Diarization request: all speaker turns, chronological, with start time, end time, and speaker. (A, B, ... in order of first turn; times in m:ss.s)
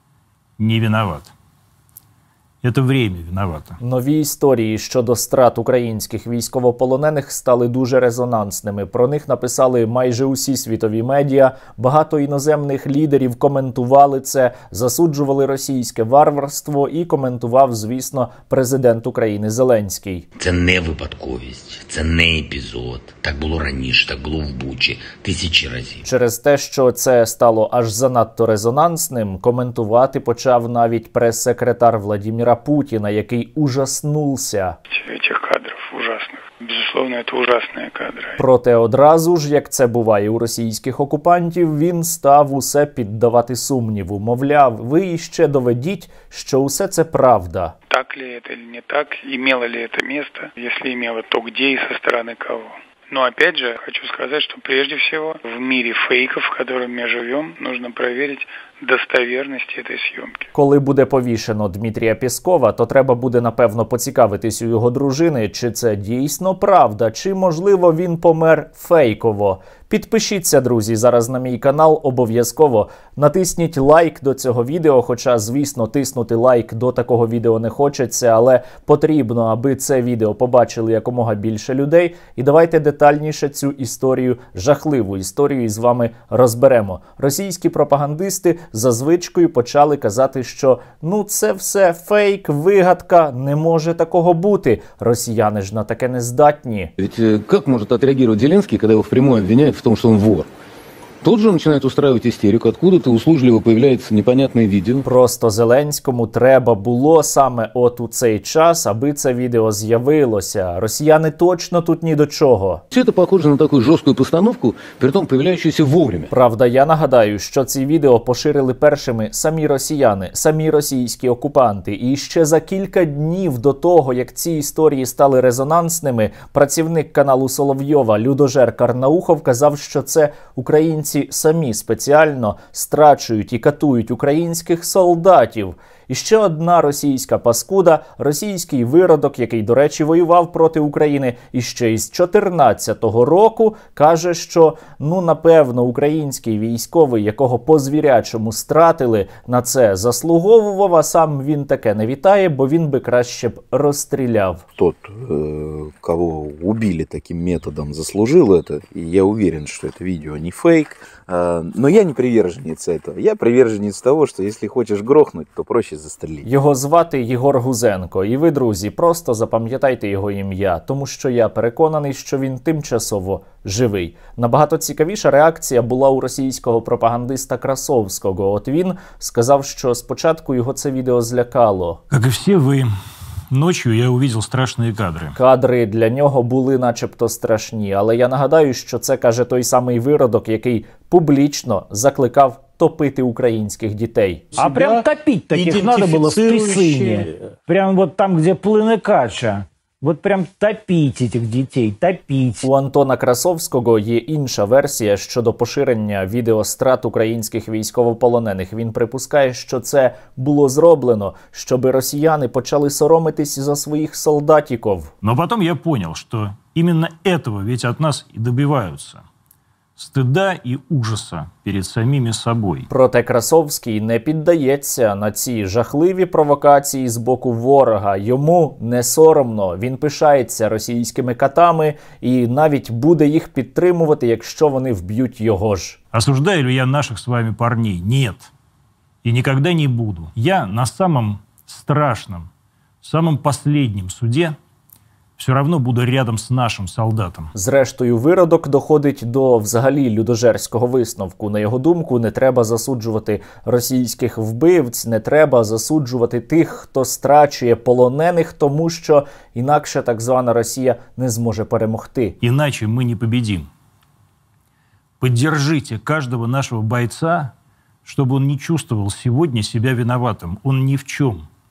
0:00.6-0:01.3 A
0:02.6-0:03.8 A
0:03.8-0:20.3 B
0:20.4-0:26.0 C
0:26.0-0:34.8 B
0:34.9-0:38.4 D
0:38.4-0:47.7 B
0:47.9-1:00.5 D
1:00.5-1:36.9 B
1:37.0-1:40.5 E
1:41.2-1:45.0 E
1:45.0-1:52.8 B
1:52.9-1:56.3 E
1:56.3-2:34.6 B
2:34.8-2:46.4 F
2:46.4-3:02.0 B
3:02.1-3:02.9 A
3:03.5-3:05.4 A
3:05.4-3:14.4 B
3:14.6-3:22.6 G
3:14.6-3:15.0 A
3:15.6-3:17.2 A
3:22.6-3:35.1 B
3:35.2-3:39.2 A
3:40.0-3:42.9 A
3:42.9-3:56.0 B
3:56.1-3:58.5 A
3:59.2-4:02.5 A
4:03.0-4:04.5 A
4:05.4-4:07.5 A
4:07.5-4:22.4 B
4:22.4-4:23.7 A
4:25.2-4:27.5 A
4:28.0-4:31.4 A